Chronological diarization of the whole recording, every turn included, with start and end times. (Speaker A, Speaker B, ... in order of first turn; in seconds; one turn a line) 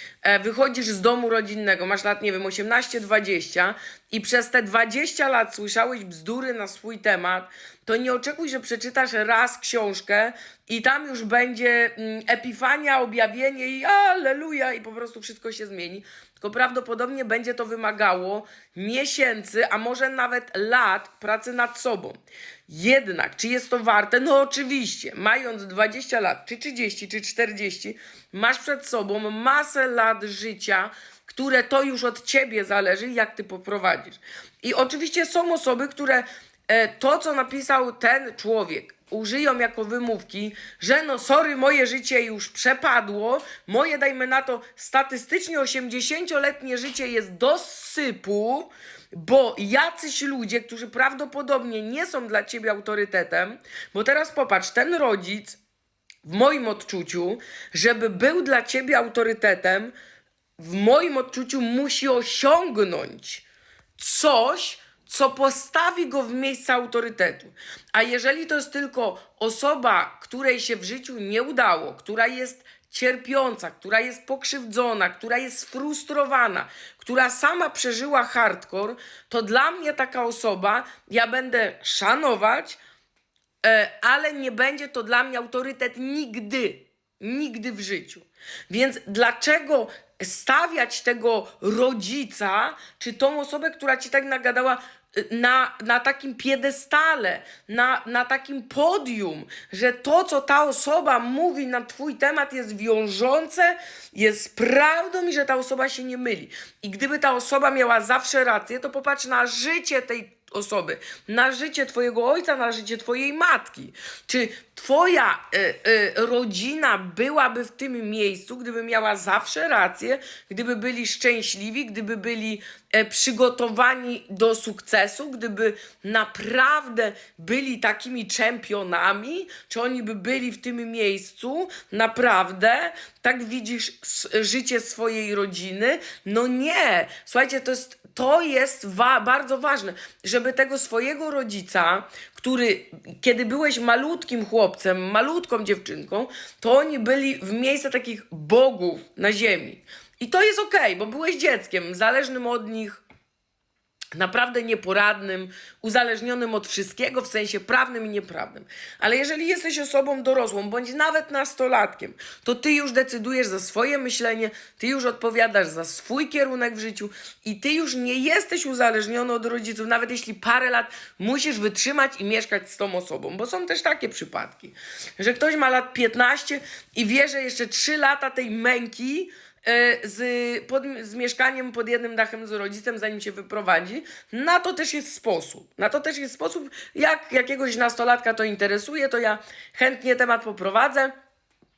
Speaker A: 0.2-55.6
Speaker A: 56.2-59.9
Speaker A: 60.6-63.4
Speaker A: 64.0-82.8
Speaker A: 83.6-153.0
Speaker A: 154.1-191.1